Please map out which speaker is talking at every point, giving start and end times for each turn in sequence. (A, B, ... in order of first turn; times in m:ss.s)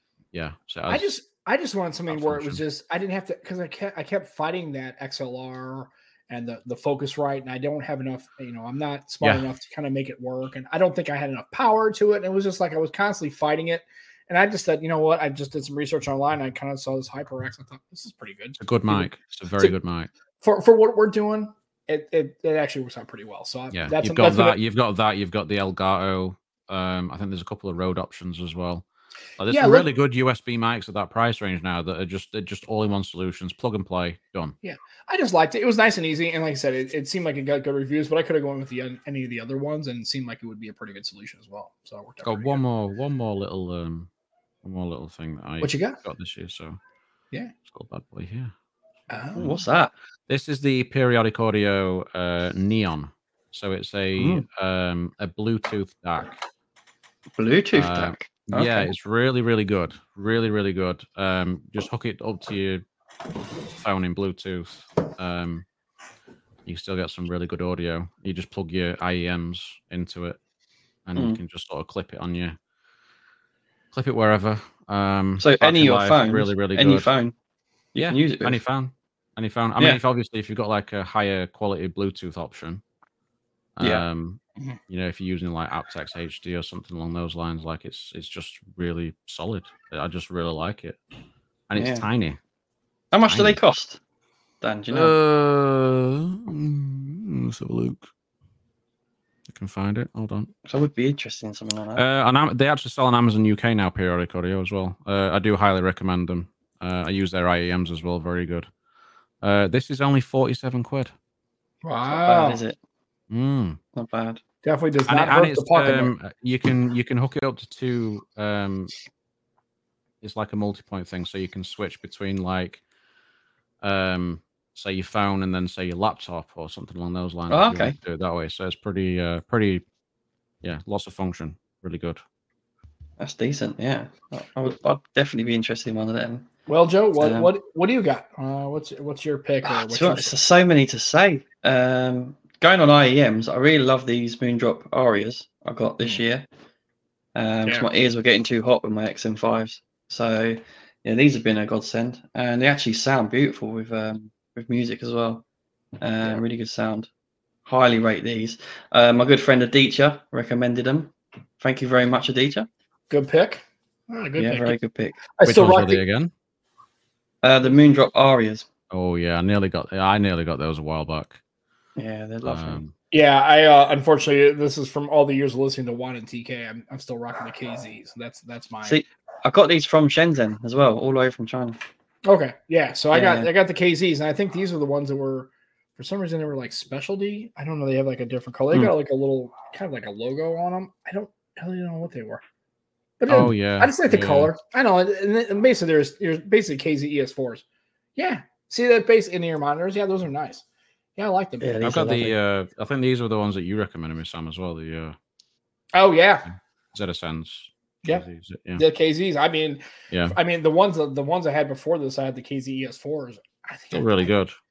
0:00.3-0:01.1 A
0:00.9-0:19.7 B
0:02.1-0:02.6 A
0:18.6-0:20.1 A
0:20.4-0:24.6 B
0:23.7-0:28.8 A
0:29.4-0:34.6 A
0:29.5-0:29.8 B
0:34.6-0:42.6 B
0:42.2-0:44.1 A
0:44.6-0:46.8 A
0:45.6-0:46.0 B
0:47.6-0:48.5 A
0:49.1-0:49.6 B
0:49.4-0:49.9 C
0:50.3-0:56.4 A
0:54.2-0:54.4 C
0:57.4-0:58.9 C
0:57.7-1:02.8 A
1:03.8-1:05.6 A
1:06.6-1:10.4 A
1:11.0-1:12.6 A
1:11.1-1:11.4 C
1:13.9-1:17.1 A
1:15.4-1:17.3 C
1:17.9-1:18.6 C
1:18.0-1:22.8 A
1:23.8-1:31.0 A
1:31.7-1:32.4 A
1:31.8-1:32.1 C
1:33.1-1:34.0 C
1:33.3-1:33.6 A
1:34.6-1:35.1 C
1:34.9-1:38.1 A
1:39.5-1:40.5 A
1:40.6-1:42.0 C
1:42.0-1:48.7 A
1:49.4-1:51.1 A
1:51.8-1:52.6 B
1:52.1-1:52.8 C
1:53.3-1:53.8 A
1:53.9-1:54.4 C
1:54.6-1:56.1 B
1:55.1-1:58.9 A
2:00.2-2:02.8 A
2:03.8-2:09.8 A
2:07.5-2:08.0 C
2:10.6-2:12.2 A
2:13.2-2:16.5 C
2:16.7-2:20.3 B
2:17.2-2:17.5 C
2:19.6-2:26.4 C
2:27.3-2:35.4 C
2:36.0-2:37.1 C
2:37.6-2:42.7 C
2:43.1-2:44.8 B
2:44.4-2:45.2 C
2:45.4-2:46.0 B
2:45.4-2:46.3 A
2:47.4-2:48.7 C
2:48.9-2:51.4 A
2:52.0-2:52.8 C
2:52.4-2:52.9 A
2:53.1-2:59.0 B
2:58.8-3:01.8 C
3:02.2-3:12.4 B
3:03.1-3:03.5 C
3:13.2-3:17.6 B
3:13.3-3:14.5 A
3:18.2-3:20.6 B
3:21.2-3:21.8 B
3:21.6-3:22.4 C
3:21.8-3:25.2 A
3:25.9-3:26.4 B
3:26.9-3:28.8 A
3:28.8-3:34.3 B
3:30.1-3:30.4 A
3:33.9-3:34.5 A